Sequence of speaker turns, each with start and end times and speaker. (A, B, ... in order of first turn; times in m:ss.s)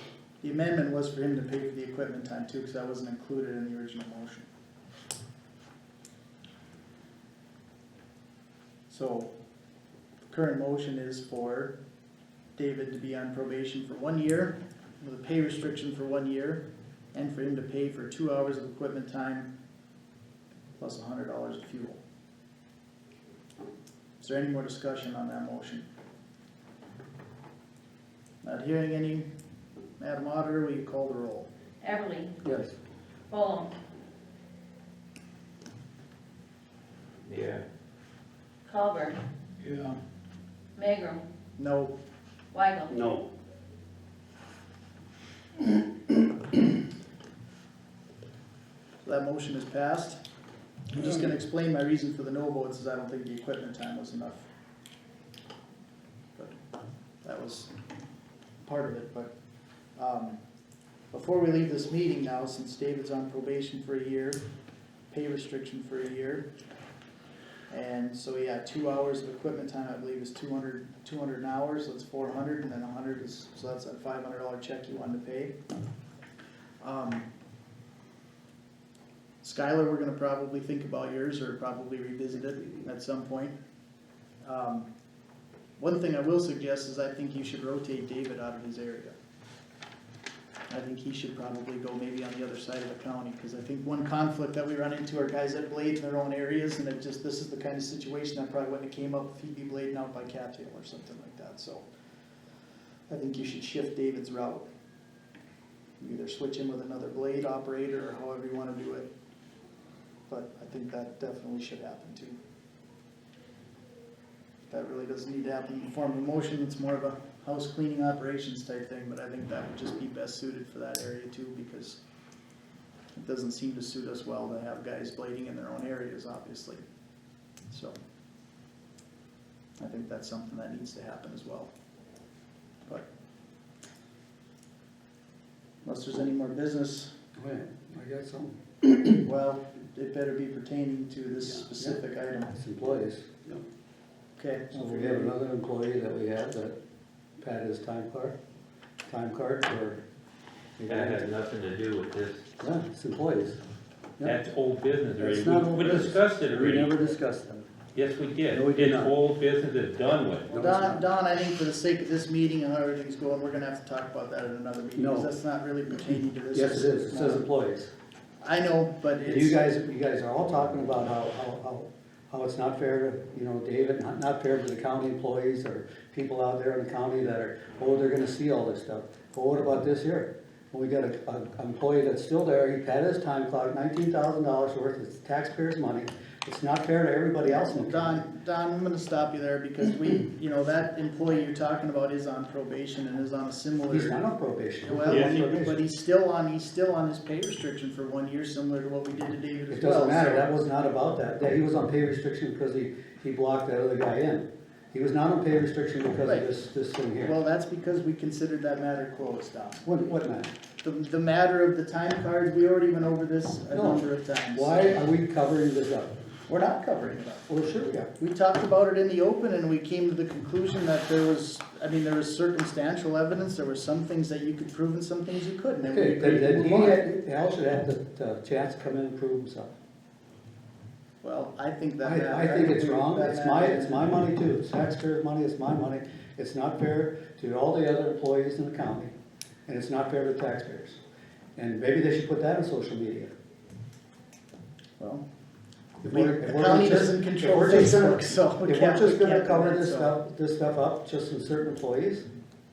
0:00.4-0:04.5 A
0:08.9-0:09.3 A
0:10.3-0:11.8 A
0:12.6-0:19.5 A
0:20.8-0:22.0 A
0:24.2-0:25.9 A
0:28.4-0:29.3 A
0:30.0-0:31.5 A
0:31.8-0:32.4 B
0:32.4-0:32.8 C
0:33.3-0:33.7 B
0:37.2-0:37.6 D
0:38.7-0:39.2 B
0:39.6-0:40.0 A
0:40.8-0:41.2 B
0:41.6-0:41.9 A
0:42.5-0:43.0 B
0:49.0-0:50.2 A
0:50.9-0:54.5 A
0:57.2-0:57.7 A
0:58.6-0:59.3 A
1:00.0-1:00.4 A
1:01.1-1:04.4 A
1:05.1-1:06.5 A
1:07.7-1:15.6 A
1:16.8-1:17.3 A
1:19.4-1:23.6 A
1:24.4-1:24.9 A
1:25.8-1:29.1 A
1:30.7-1:41.9 A
1:43.1-1:44.7 A
1:46.0-1:49.1 A
1:50.3-1:52.4 A
1:54.7-2:02.0 A
2:03.1-2:06.8 A
2:07.7-2:08.0 A
2:09.8-2:11.7 A
2:15.8-2:17.1 A
2:17.4-2:19.2 C
2:19.2-2:22.6 A
2:21.5-2:22.0 C
2:22.5-2:23.6 C
2:24.4-2:25.4 A
2:24.7-2:26.8 C
2:27.4-2:28.4 C
2:29.1-2:30.0 C
2:30.8-2:31.3 C
2:30.9-2:32.5 D
2:32.6-2:33.6 C
2:34.2-2:37.0 D
2:35.2-2:37.7 C
2:37.9-2:40.5 D
2:38.5-2:39.2 C
2:40.5-2:41.1 C
2:40.5-2:47.5 A
2:45.0-2:45.3 C
2:46.0-2:47.9 C
2:48.4-2:49.6 A
2:49.2-3:08.3 C
3:07.4-3:14.2 A
3:13.9-3:15.8 C
3:14.8-3:20.6 A
3:19.7-3:27.3 C
3:27.2-3:29.9 A
3:29.8-3:30.5 C
3:30.8-3:34.9 A
3:33.7-3:36.2 C
3:36.5-3:37.5 A
3:37.5-3:38.2 C
3:38.2-3:47.0 A
3:45.8-3:49.7 C
3:51.2-3:54.1 A
3:52.0-3:59.1 C
3:59.7-4:01.0 C
4:01.6-4:03.3 C
4:05.0-4:05.2 A
4:06.0-4:12.3 C
4:06.0-4:10.2 A